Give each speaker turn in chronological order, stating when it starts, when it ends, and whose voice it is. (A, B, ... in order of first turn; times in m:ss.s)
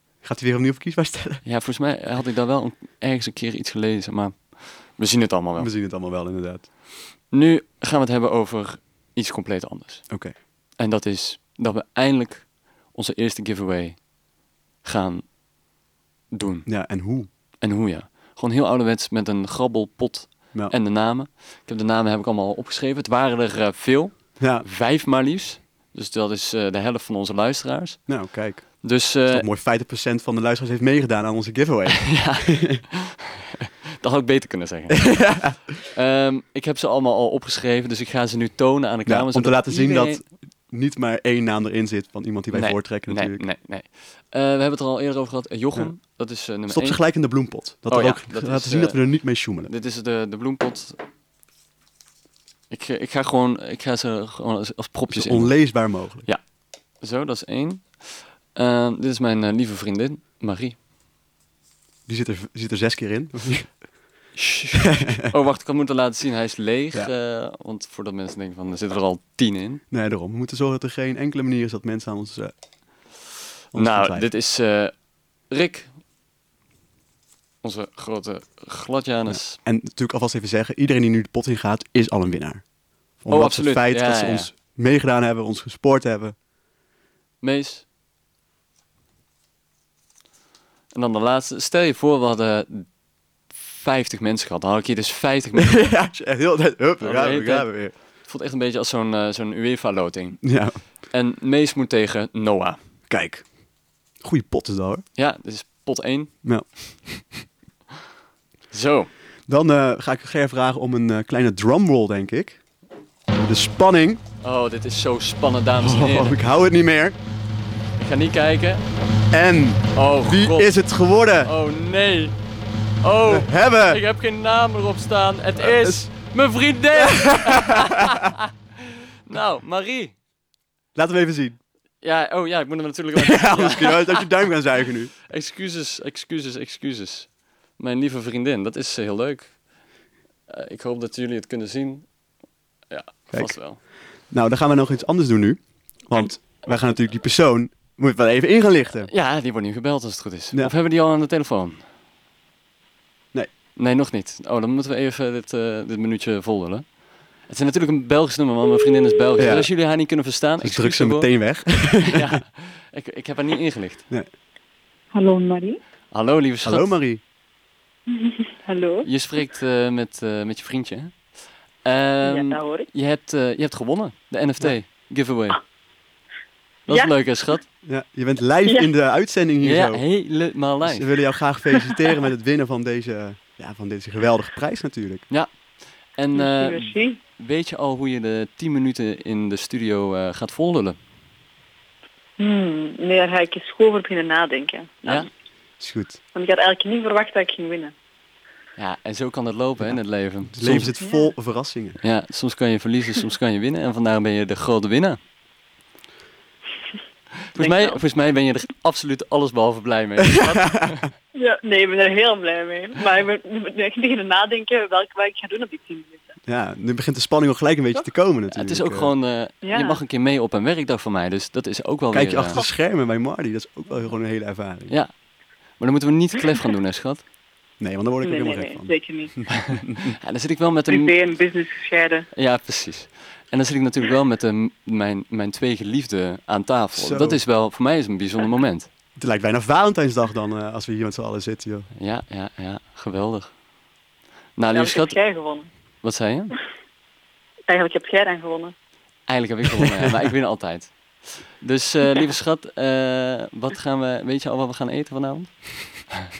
0:00.2-0:01.4 A
0:01.4-0:05.7 B
0:05.6-0:06.7 A
0:07.3-0:10.1 B
0:10.1-0:10.3 A
0:10.8-0:14.0 B
0:14.8-0:15.3 B
0:16.3-0:16.7 B
0:16.7-0:17.3 A
0:17.6-0:28.1 B
0:24.4-0:24.7 A
0:28.1-0:32.8 A
0:28.8-0:29.5 B
0:32.0-0:35.4 B
0:34.9-0:35.7 A
0:35.9-0:40.2 B
0:39.1-0:43.4 A
0:42.5-0:47.0 B
0:46.7-0:49.7 A
0:47.9-0:49.0 B
0:49.7-0:51.0 B
0:52.7-0:55.6 B
0:55.1-0:56.3 A
0:57.0-0:58.0 B
0:58.5-1:00.8 B
1:02.1-1:03.8 A
1:04.4-1:09.8 B
1:04.9-1:05.3 A
1:09.9-1:12.5 A
1:13.7-1:14.3 A
1:13.7-1:14.9 B
1:15.5-1:15.9 B
1:17.6-1:19.6 B
1:19.3-1:22.6 A
1:23.2-1:26.4 A
1:23.3-1:24.5 B
1:27.4-1:27.8 B
1:30.9-1:32.9 B
1:33.5-1:35.9 B
1:35.6-1:37.9 A
1:37.0-1:40.6 B
1:40.4-1:40.8 A
1:41.1-1:42.8 B
1:43.1-1:43.5 A
1:44.2-1:45.0 A
1:45.2-1:46.3 B
1:46.4-1:47.4 A
1:48.7-1:49.1 B
1:49.5-1:52.6 A
1:53.4-1:54.2 A
1:54.4-1:56.4 B
1:55.8-1:57.2 A
1:58.0-1:58.9 B
1:59.3-2:01.5 A
2:00.0-2:00.7 B
2:01.4-2:02.3 B
2:03.0-2:10.2 B
2:03.3-2:04.0 A
2:05.6-2:06.1 A
2:06.9-2:08.3 A
2:11.0-2:11.6 A
2:12.0-2:14.3 B
2:13.2-2:15.1 A
2:15.3-2:19.5 B
2:20.5-2:22.1 B
2:22.9-2:23.8 B
2:24.3-2:29.1 A
2:29.1-2:31.8 B
2:33.8-2:36.9 B
2:37.5-2:41.3 B
2:39.4-2:39.7 A
2:40.6-2:42.4 A
2:42.0-2:44.1 B
2:45.1-2:45.8 C
2:46.1-2:46.9 B
2:46.6-2:47.2 A
2:48.1-2:49.1 C
2:49.0-2:51.2 B
2:51.8-2:55.6 B
2:52.2-2:52.9 C
2:56.9-2:57.1 C
2:56.9-2:57.6 B
2:57.8-3:00.0 A
2:58.7-2:58.9 C
2:59.6-3:01.1 B
3:00.8-3:05.2 A
3:06.2-3:11.0 B
3:06.3-3:07.2 C
3:12.4-3:15.3 C
3:15.8-3:16.2 A
3:16.3-3:17.9 C
3:18.8-3:20.9 B
3:20.5-3:22.0 A
3:21.0-3:21.3 C
3:22.0-3:25.2 B
3:27.5-3:31.1 B
3:27.6-3:28.0 C
3:30.2-3:31.1 A
3:31.4-3:36.4 C
3:36.5-3:39.1 A
3:38.5-3:42.6 B
3:39.6-3:40.0 C
3:42.1-3:45.0 A
3:45.8-3:47.2 B
3:47.8-3:50.1 A
3:48.2-3:49.6 C
3:49.5-3:51.1 B
3:50.9-3:52.3 C
3:52.3-3:58.9 B
3:57.0-3:57.4 A
3:59.2-4:01.9 A
4:02.0-4:03.5 B
4:04.6-4:05.2 B
4:04.7-4:05.7 C
4:06.0-4:06.6 B
4:07.7-4:08.7 C
4:09.3-4:16.3 B